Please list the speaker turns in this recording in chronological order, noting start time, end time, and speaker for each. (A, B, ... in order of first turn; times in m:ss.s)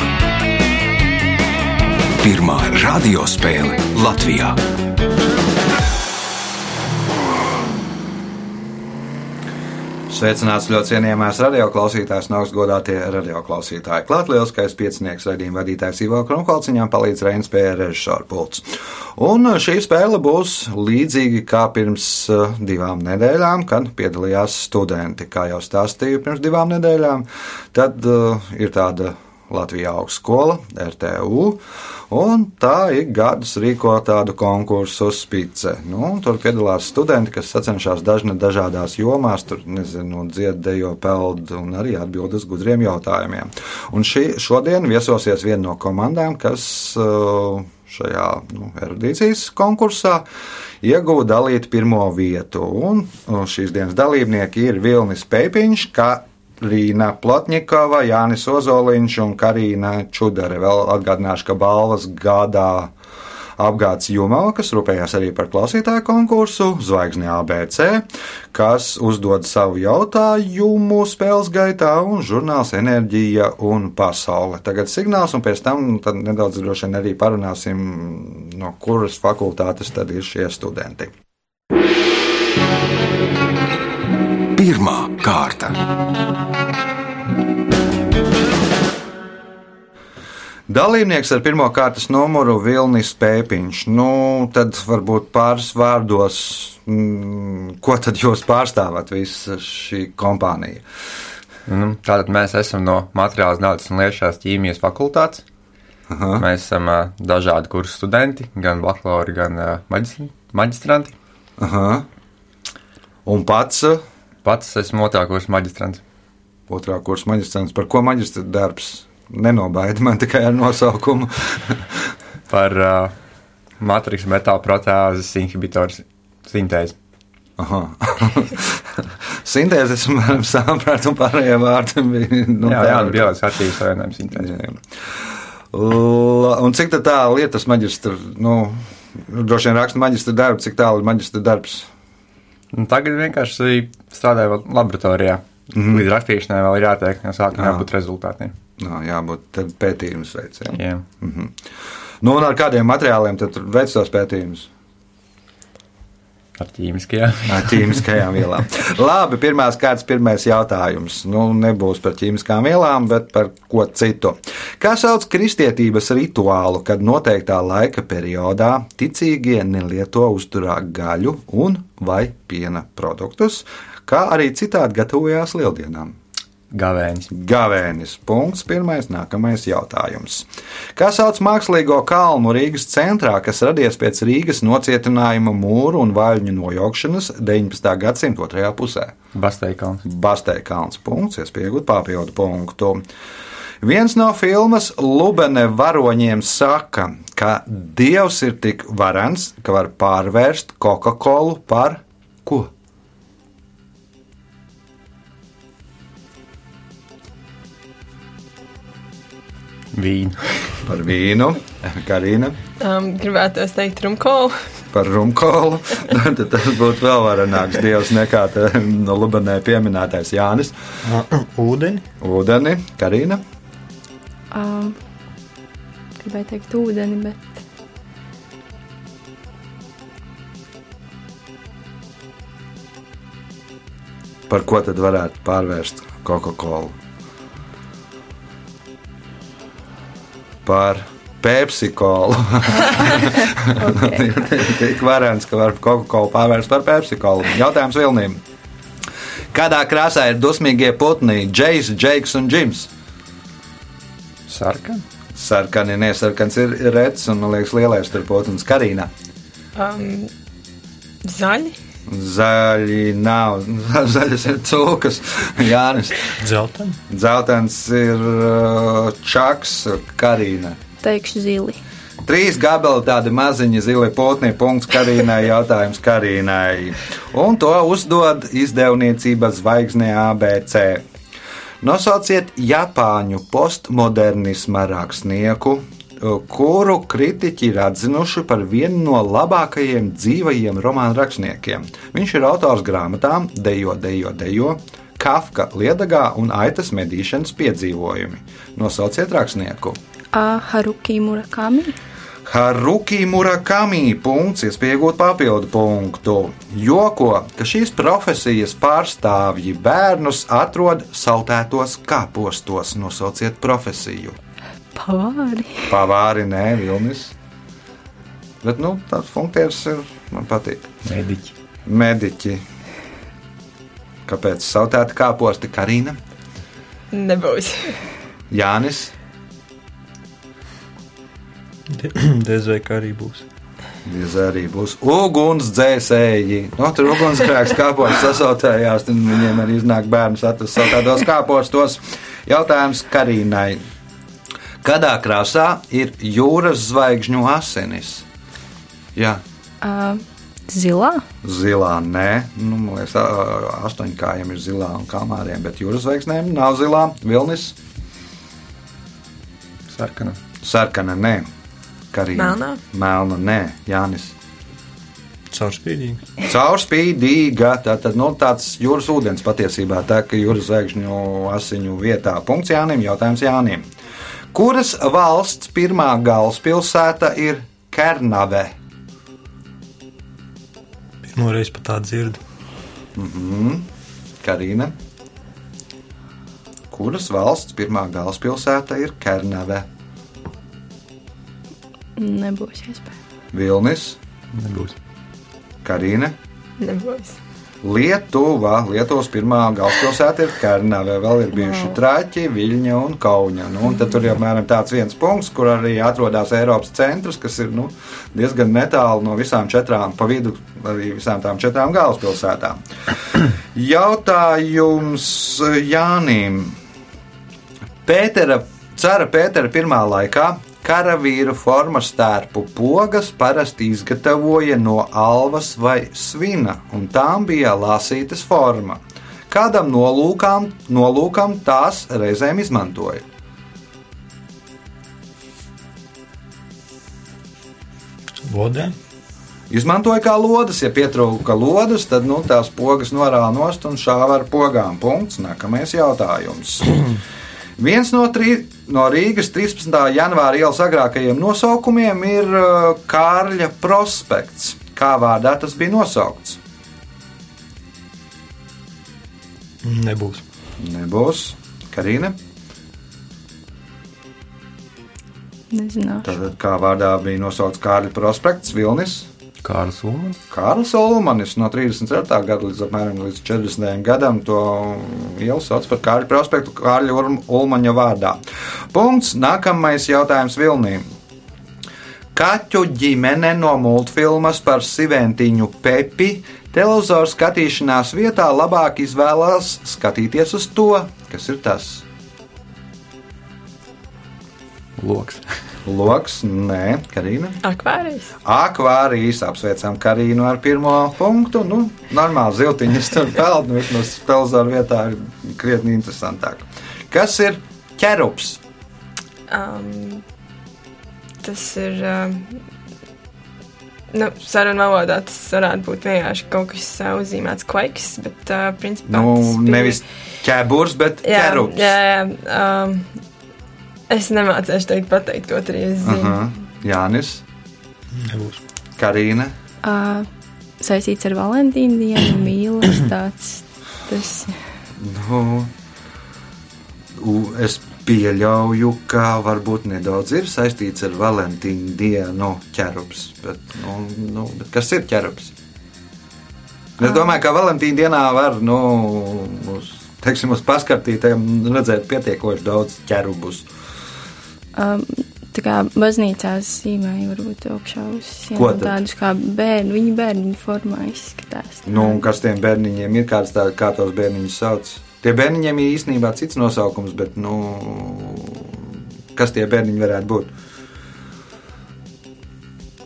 0:02.2-0:04.6 A
0:10.1-0:50.2 B
0:50.8-1:02.9 B
1:03.6-1:21.1 B
1:24.6-1:25.8 A
1:30.7-1:40.8 B
1:41.7-1:45.4 C
1:46.1-1:46.5 B
1:46.4-1:51.2 C
1:51.6-1:52.1 B
1:53.2-1:54.0 B
1:54.4-1:56.0 C
1:56.7-2:02.0 B
2:02.5-2:03.1 C
2:03.8-2:07.0 C
2:07.6-2:13.4 B
2:12.6-2:14.5 C
2:14.3-2:14.8 B
2:15.7-2:21.9 B
2:22.7-2:28.5 C
2:25.7-2:26.1 B
2:27.6-2:27.9 B
2:28.8-2:31.5 B
2:30.7-2:31.0 C
2:32.2-2:34.7 B
2:36.6-2:38.0 C
2:37.5-2:56.2 B
2:56.7-2:57.3 C
2:57.3-3:09.2 B
3:09.3-3:10.0 C
3:10.0-3:13.0 B
3:13.8-3:22.7 B
3:29.9-3:30.8 C
3:30.9-3:32.6 B
3:32.8-3:34.6 D
3:34.9-3:40.8 B
3:41.0-3:42.0 E
3:42.2-3:43.4 B
3:44.5-3:45.0 F
3:46.2-3:47.6 F
3:54.5-3:56.9 B
4:00.6-4:08.4 B
4:03.2-4:04.2 F
4:09.5-4:12.9 B
4:14.5-4:15.0 C
4:15.4-4:19.1 B
4:19.8-4:20.3 D
4:21.2-4:21.8 D
4:22.1-4:26.4 B
4:26.4-4:27.0 E
4:27.1-4:30.8 B
4:31.0-4:31.8 F
4:32.2-4:41.0 B
4:41.8-5:00.0 B
5:00.3-5:02.0 F
5:02.4-5:14.4 B
5:15.0-5:15.9 F
5:15.9-5:17.3 B
5:18.6-5:20.9 B
5:21.0-5:21.5 C
5:21.9-5:22.6 B
5:24.3-5:26.2 B
5:27.1-5:28.0 D
5:28.5-5:29.1 B
5:31.9-5:33.5 E
5:34.0-5:43.8 B
5:44.8-5:48.3 B
5:49.2-5:49.4 B
5:49.8-5:51.2 F
5:51.4-5:57.8 B
5:59.9-6:00.4 C
6:00.6-6:01.5 B
6:02.1-6:04.4 B
6:02.4-6:02.8 D
6:05.5-6:06.3 E
6:06.4-6:13.9 B
6:14.5-6:18.7 B
6:21.2-6:22.4 E
6:23.2-6:23.9 B
6:24.4-6:25.0 B
6:26.9-6:29.9 B
6:32.2-6:33.1 F
6:33.5-6:34.2 B
6:34.5-6:35.0 C
6:35.8-6:36.4 B
6:36.8-6:37.4 D
6:37.8-6:52.8 B
6:53.4-6:56.8 B
6:58.1-7:13.2 B
7:18.4-7:19.0 E
7:19.7-7:27.0 B
7:27.8-7:36.6 B
7:39.8-7:40.4 E
7:40.8-7:42.4 B
7:45.7-7:46.3 F
7:46.2-7:49.3 B
7:49.6-7:50.4 C
7:50.5-7:58.4 B
7:58.9-8:01.0 B
8:02.3-8:12.0 B
8:15.0-8:15.4 C
8:15.9-8:17.6 B
8:17.6-8:18.3 D
8:18.4-8:28.6 B
8:29.5-8:30.2 D
8:31.4-8:32.6 D
8:34.1-8:40.0 D
8:39.1-8:42.0 B
8:41.2-8:43.1 D
8:44.1-8:46.4 D
8:46.0-8:47.4 B
8:48.2-8:48.6 E
8:49.0-8:49.5 B
8:49.8-8:50.3 F
8:50.8-8:54.6 F
8:55.0-8:55.7 B
8:57.2-9:05.5 B
9:07.0-9:13.7 B
9:14.8-9:22.3 F
9:18.6-9:19.0 B
9:21.9-9:28.8 B
9:29.3-9:30.5 B